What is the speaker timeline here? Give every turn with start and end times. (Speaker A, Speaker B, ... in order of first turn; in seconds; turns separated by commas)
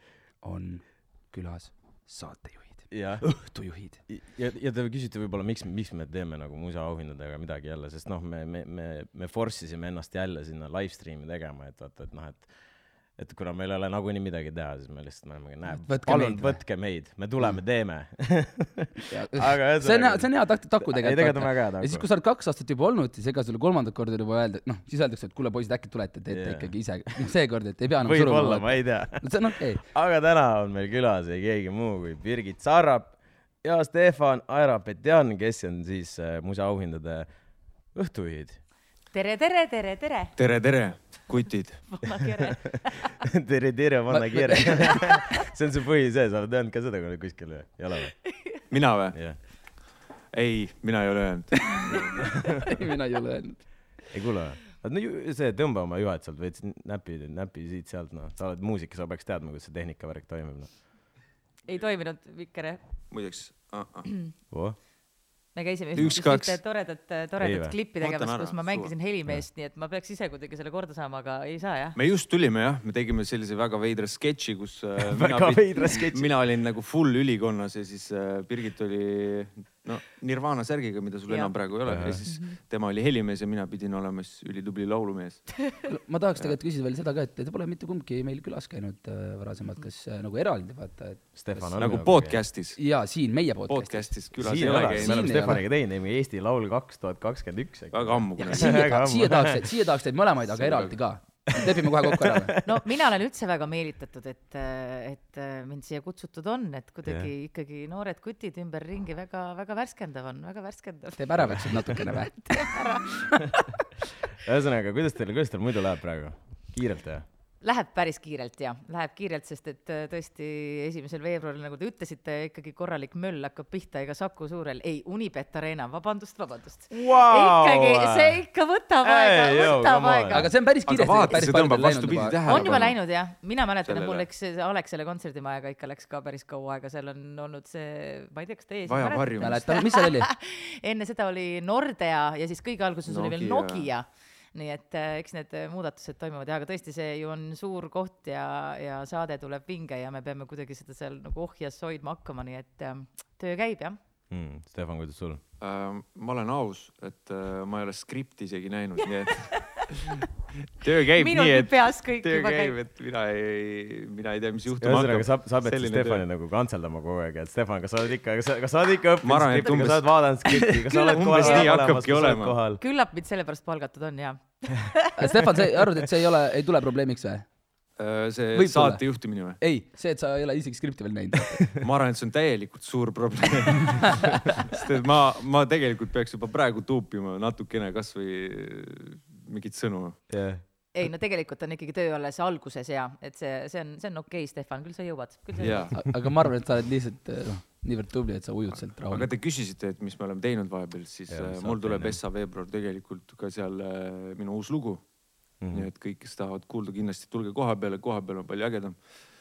Speaker A: 0.4-4.0, Speaker B: 2.9-12.6, Speaker B: 13.1-22.1, Speaker A: 15.7-17.6, Speaker A: 19.1-29.8, Speaker B: 26.3-26.9, Speaker B: 28.0-38.6, Speaker C: 39.1-40.4, Speaker D: 40.4-41.9, Speaker C: 41.9-43.1, Speaker B: 43.4-48.3, Speaker A: 44.1-45.2, Speaker D: 48.7-52.3, Speaker B: 49.1-49.4, Speaker A: 51.9-53.9, Speaker B: 54.1-60.8, Speaker C: 61.7-63.0, Speaker D: 63.1-64.1, Speaker B: 64.5-64.8, Speaker C: 65.5-72.0, Speaker D: 66.0-66.6, Speaker B: 67.4-67.8, Speaker D: 68.0-68.9, Speaker D: 72.0-85.8, Speaker B: 75.0-76.3, Speaker C: 81.3-82.6, Speaker B: 81.8-82.2, Speaker A: 85.8-92.0, Speaker B: 91.3-92.4, Speaker D: 91.8-92.9, Speaker A: 92.8-95.7, Speaker D: 93.6-95.4, Speaker B: 94.4-99.7, Speaker D: 97.9-98.9, Speaker A: 98.5-102.5, Speaker D: 100.5-100.9, Speaker B: 101.6-102.6, Speaker C: 102.6-113.7, Speaker B: 107.0-107.3, Speaker A: 111.2-113.2, Speaker B: 114.4-117.2, Speaker C: 117.6-130.5, Speaker B: 126.9-128.4, Speaker B: 129.0-130.5, Speaker A: 130.3-132.8, Speaker D: 130.8-133.0, Speaker C: 132.5-154.0, Speaker D: 133.8-134.3, Speaker D: 138.9-139.7, Speaker A: 139.4-140.3, Speaker D: 143.1-143.9, Speaker B: 154.3-155.4, Speaker D: 155.6-166.2, Speaker C: 159.1-160.1, Speaker C: 161.2-162.8, Speaker B: 164.8-172.8, Speaker D: 169.2-170.2, Speaker C: 170.9-171.7, Speaker D: 171.1-172.6, Speaker C: 172.8-175.3, Speaker A: 175.2-177.5, Speaker D: 178.0-179.6, Speaker A: 178.5-181.7, Speaker D: 181.8-190.4, Speaker B: 190.3-190.6, Speaker C: 190.9-196.0, Speaker D: 195.6-196.0, Speaker A: 195.9-199.3, Speaker D: 199.0-209.1, Speaker B: 201.3-202.2, Speaker B: 205.6-205.9